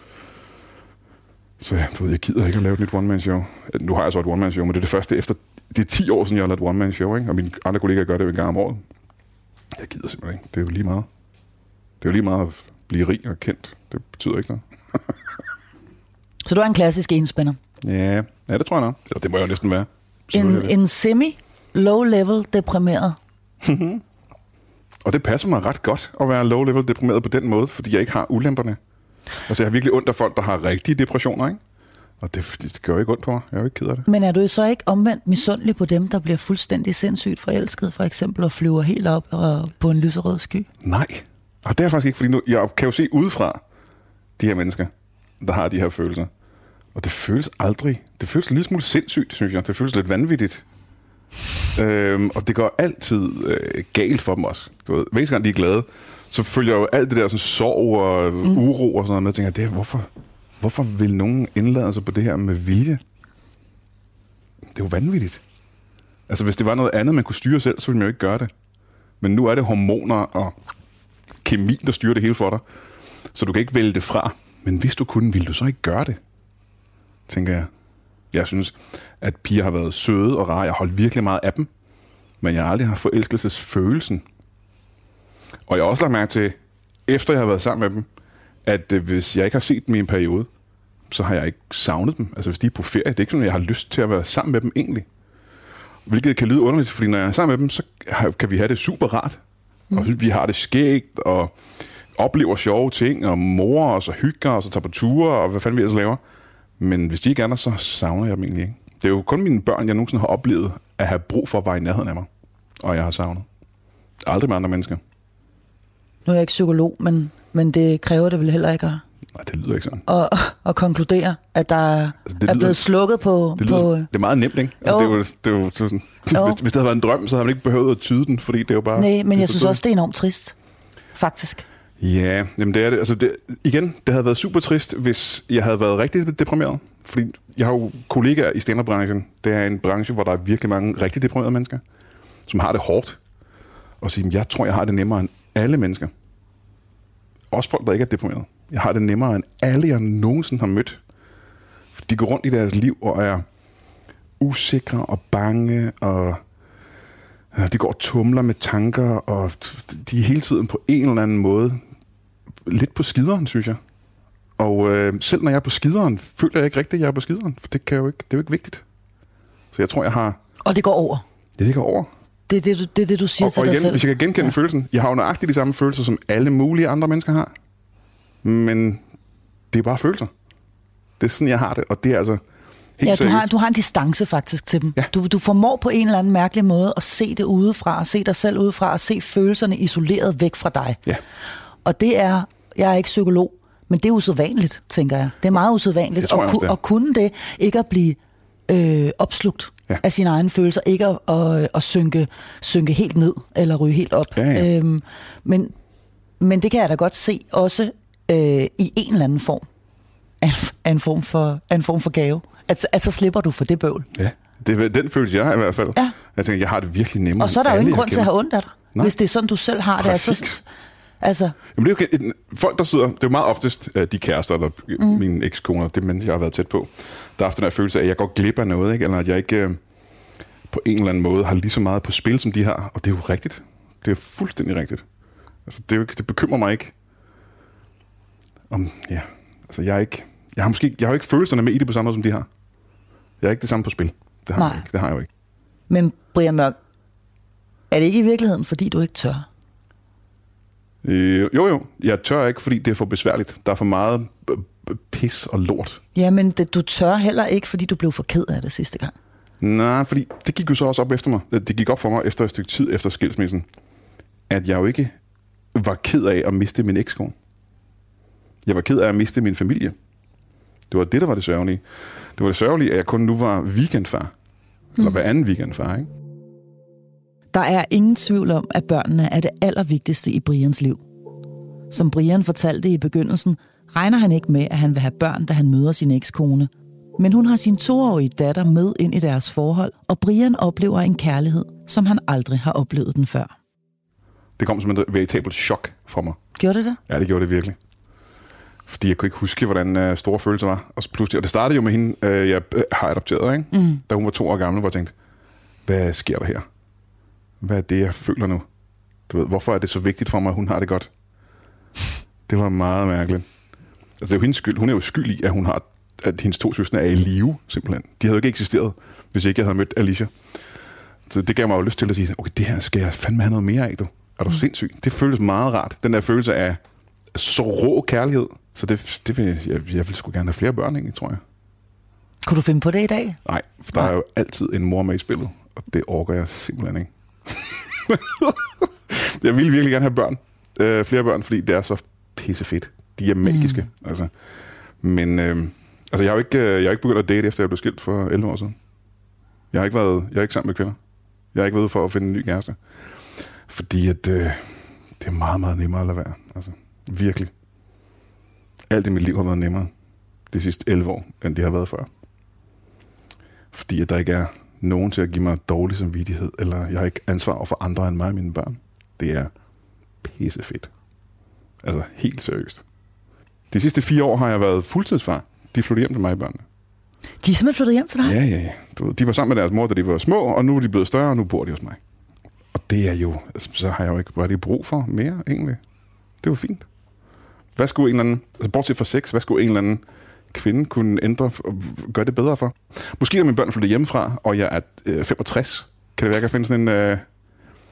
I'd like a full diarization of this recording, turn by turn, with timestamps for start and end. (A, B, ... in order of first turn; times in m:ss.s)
0:01.6-0:08.8 A
0:09.7-0:11.1 A
0:12.0-0:15.4 A
0:16.4-0:17.6 B
0:17.8-0:20.7 A
0:20.3-0:23.2 B
0:23.6-0:24.0 A
0:25.0-0:28.8 A
0:29.5-0:31.6 A
0:32.2-0:34.1 A
0:34.1-0:40.7 B
0:40.8-0:43.6 A
0:44.4-0:46.3 A
0:47.0-0:50.6 A
0:51.8-1:00.1 A
1:00.6-1:03.0 A
1:04.7-1:05.4 A
1:06.3-1:08.5 A
1:09.2-1:10.6 A
1:11.4-1:12.6 A
1:13.3-1:16.2 A
1:17.3-1:17.7 A
1:18.3-1:21.7 A
1:22.4-1:24.2 A
1:25.7-1:28.1 A
1:28.6-1:30.5 A
1:31.1-1:35.1 A
1:36.1-1:39.4 A
1:39.9-1:41.6 A
1:42.2-1:46.2 A
1:46.8-1:52.3 A
1:52.8-1:53.5 A
1:54.2-1:55.0 A
1:56.3-1:59.0 B
1:59.3-2:00.0 A
2:00.1-2:04.1 B
2:02.3-2:02.8 A
2:03.6-2:09.8 A
2:04.8-2:05.2 B
2:09.0-2:10.6 B
2:11.2-2:11.6 B
2:12.0-2:21.8 A
2:22.5-2:23.2 A
2:24.0-2:26.1 A
2:27.5-2:31.0 A
2:31.9-2:33.4 A
2:34.4-2:36.4 A
2:37.5-2:41.8 A
2:42.6-2:43.8 A
2:44.6-2:48.8 A
2:49.7-2:50.4 A
2:50.6-2:51.2 B
2:51.6-2:52.1 A
2:52.5-2:54.5 B
2:53.4-2:57.5 A
2:58.4-2:59.0 A
2:59.7-3:00.3 A
3:01.2-3:02.4 A
3:03.0-3:03.5 A
3:03.0-3:11.0 B
3:11.8-3:25.7 B
3:16.2-3:16.8 A
3:24.4-3:24.7 A
3:26.4-3:29.7 B
3:30.4-3:34.1 B
3:34.1-3:38.3 A
3:37.4-3:40.6 B
3:40.0-3:40.6 A
3:41.2-3:41.6 B
3:41.8-3:49.8 A
3:50.7-3:55.0 A
3:55.7-3:56.9 A
3:58.7-4:02.5 A
4:03.4-4:05.3 A
4:04.6-4:04.9 B
4:05.9-4:06.8 B
4:07.9-4:09.5 B
4:11.0-4:16.0 A
4:16.2-4:19.2 B
4:19.6-4:23.7 A
4:24.5-4:25.1 A
4:25.7-4:27.3 A
4:28.6-4:30.0 A
4:30.9-4:31.8 A
4:32.4-4:34.3 A
4:35.0-4:36.1 A
4:37.5-4:41.0 B
4:41.9-4:53.5 B
4:54.6-4:56.4 A
4:56.6-4:57.0 B
4:57.1-4:57.8 A
4:58.9-5:05.1 A
5:03.7-5:04.0 B
5:05.8-5:06.6 A
5:07.6-5:08.6 A
5:09.3-5:11.1 A
5:12.5-5:13.5 A
5:14.2-5:20.3 A
5:21.3-5:26.8 A
5:27.3-5:31.4 A
5:32.4-5:33.4 B
5:33.4-5:44.3 A
5:43.6-5:43.8 B
5:45.0-5:48.8 A
5:49.7-5:51.0 A
5:51.5-5:52.8 A
5:53.7-5:57.5 A
5:58.9-5:59.9 A
6:00.5-6:02.1 A
6:03.7-6:09.5 A
6:10.2-6:10.9 A
6:11.8-6:12.8 A
6:13.7-6:16.6 A
6:17.4-6:18.4 B
6:18.2-6:22.0 A
6:22.7-6:25.8 A
6:26.4-6:26.9 A
6:27.8-6:37.3 A